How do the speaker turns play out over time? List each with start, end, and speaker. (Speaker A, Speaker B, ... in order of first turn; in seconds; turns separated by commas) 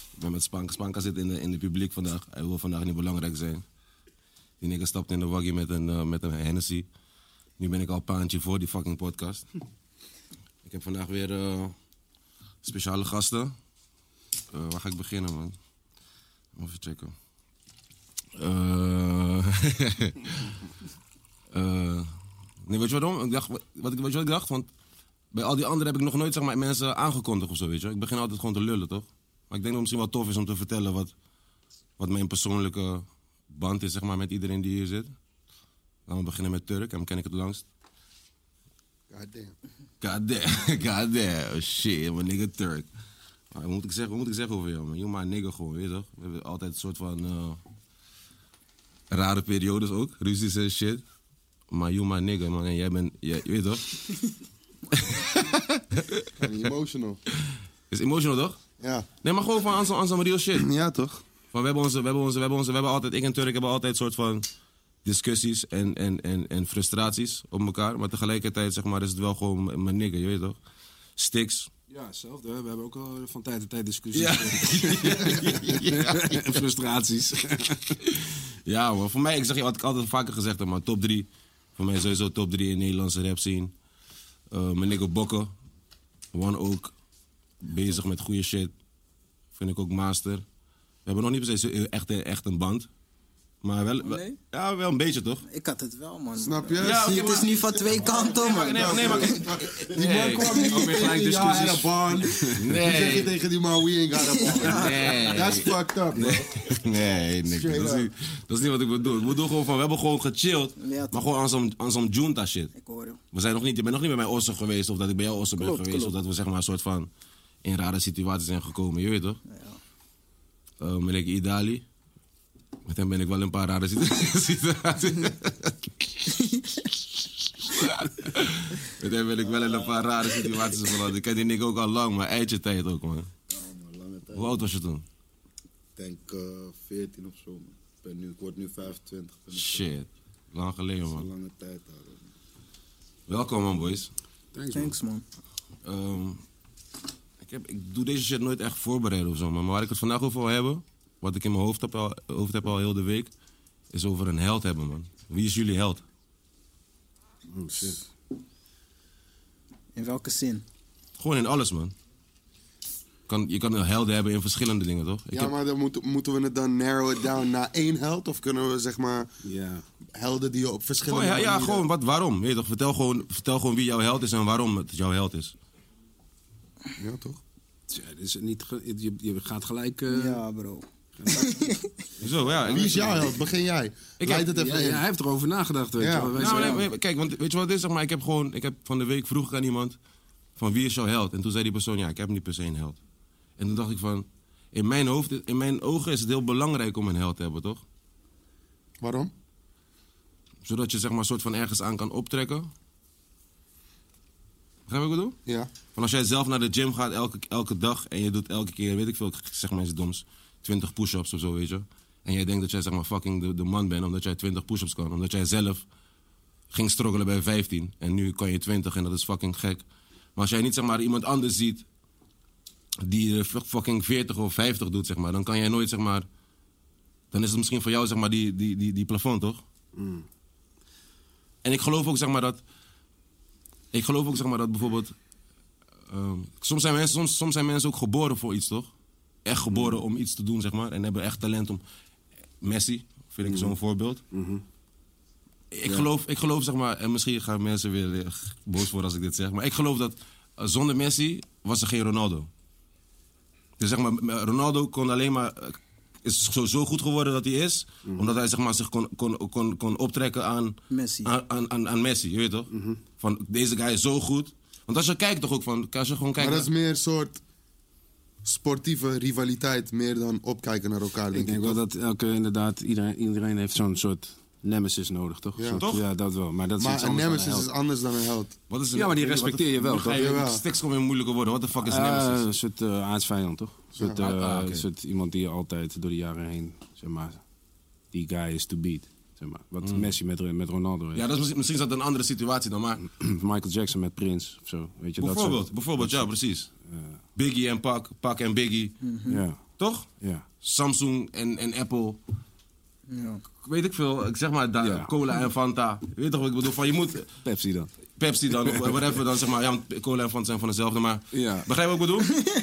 Speaker A: 0.2-3.6, Speaker A: 4.6-6.9, Speaker A: 7.6-9.4, Speaker A: 10.6-11.7, Speaker A: 12.6-13.5, Speaker A: 14.5-15.5, Speaker A: 16.5-17.1, Speaker A: 18.4-20.5, Speaker A: 21.5-22.1, Speaker A: 22.6-24.7, Speaker A: 25.3-31.1, Speaker A: 32.0-35.1, Speaker A: 36.1-37.6, Speaker B: 39.1-39.5, Speaker A: 40.0-42.9, Speaker A: 43.5-47.6, Speaker A: 49.1-51.0, Speaker A: 51.7-54.1, Speaker A: 54.9-56.3, Speaker B: 56.4-57.2, Speaker A: 57.9-58.6, Speaker B: 58.8-59.1, Speaker A: 59.2-60.7, Speaker B: 60.5-61.2, Speaker A: 61.5-64.5, Speaker A: 65.0-70.6, Speaker A: 71.2-71.7, Speaker C: 71.9-78.0, Speaker A: 74.1-76.4, Speaker A: 78.0-83.7, Speaker A: 84.5-85.5, Speaker A: 86.3-86.9, Speaker A: 87.6-88.7, Speaker A: 89.5-90.4, Speaker A: 91.0-92.9, Speaker A: 93.6-95.4, Speaker D: 94.0-94.4, Speaker D: 95.4-99.5, Speaker B: 96.4-97.5, Speaker A: 96.8-101.5, Speaker B: 98.1-106.5, Speaker C: 100.5-102.7, Speaker A: 102.6-103.3, Speaker A: 104.7-112.7, Speaker B: 107.5-108.1, Speaker D: 110.8-111.3, Speaker D: 112.7-113.2, Speaker A: 113.3-117.1, Speaker D: 115.6-116.1, Speaker A: 117.6-119.4, Speaker D: 119.5-119.8, Speaker A: 120.8-121.8, Speaker A: 122.8-125.8, Speaker A: 127.7-133.3, Speaker E: 129.6-129.9, Speaker E: 133.5-134.6, Speaker A: 134.3-135.0, Speaker E: 136.0-139.8, Speaker A: 139.5-141.2, Speaker E: 141.1-142.2, Speaker A: 143.3-144.1, Speaker C: 144.5-144.9, Speaker D: 144.7-145.2, Speaker A: 145.8-146.4, Speaker A: 147.4-153.3, Speaker A: 153.9-156.0, Speaker C: 157.5-158.0, Speaker D: 159.9-160.6, Speaker A: 161.2-161.9, Speaker A: 163.3-165.5, Speaker B: 165.3-169.3, Speaker C: 169.4-169.8, Speaker B: 170.2-171.8, Speaker A: 171.1-175.5, Speaker B: 177.0-177.4, Speaker C: 177.9-180.4, Speaker D: 180.1-181.8, Speaker C: 181.2-182.3, Speaker A: 182.2-183.4, Speaker B: 182.6-185.0, Speaker A: 184.2-184.5, Speaker C: 184.5-186.9, Speaker B: 186.0-186.4, Speaker A: 186.3-189.9, Speaker A: 190.6-193.0, Speaker A: 193.6-197.8, Speaker B: 199.0-199.3, Speaker A: 200.6-202.7, Speaker A: 204.9-205.4, Speaker A: 205.9-215.8, Speaker A: 216.7-219.8, Speaker A: 220.3-221.8, Speaker A: 223.0-226.3, Speaker A: 227.3-229.6, Speaker C: 229.9-230.3, Speaker A: 231.6-232.6, Speaker A: 233.9-235.1, Speaker A: 236.1-238.9, Speaker A: 239.4-241.8, Speaker C: 239.7-240.0, Speaker A: 242.6-244.2, Speaker C: 243.4-243.8, Speaker C: 244.3-244.6, Speaker A: 245.7-252.5, Speaker A: 253.8-266.7, Speaker C: 258.1-258.3, Speaker D: 260.9-261.3, Speaker C: 262.7-263.0, Speaker B: 266.4-267.4, Speaker B: 268.4-271.8, Speaker C: 271.3-277.7, Speaker B: 275.6-275.8, Speaker A: 275.7-276.0, Speaker B: 276.8-278.6, Speaker A: 278.7-282.4, Speaker C: 278.9-280.4, Speaker B: 280.0-280.6, Speaker C: 281.7-287.4, Speaker A: 284.2-284.8, Speaker C: 288.1-291.2, Speaker A: 289.8-290.1, Speaker A: 291.1-293.0, Speaker C: 293.0-297.2, Speaker A: 295.2-296.7, Speaker A: 297.4-299.0, Speaker D: 299.0-299.4, Speaker C: 299.3-299.6, Speaker A: 299.8-300.1, Speaker C: 300.2-300.4, Speaker A: 300.6-302.2, Speaker D: 303.1-303.4, Speaker A: 303.6-307.3, Speaker C: 304.8-305.1, Speaker C: 307.4-307.9, Speaker A: 308.2-312.5, Speaker C: 308.6-309.1, Speaker C: 311.3-311.7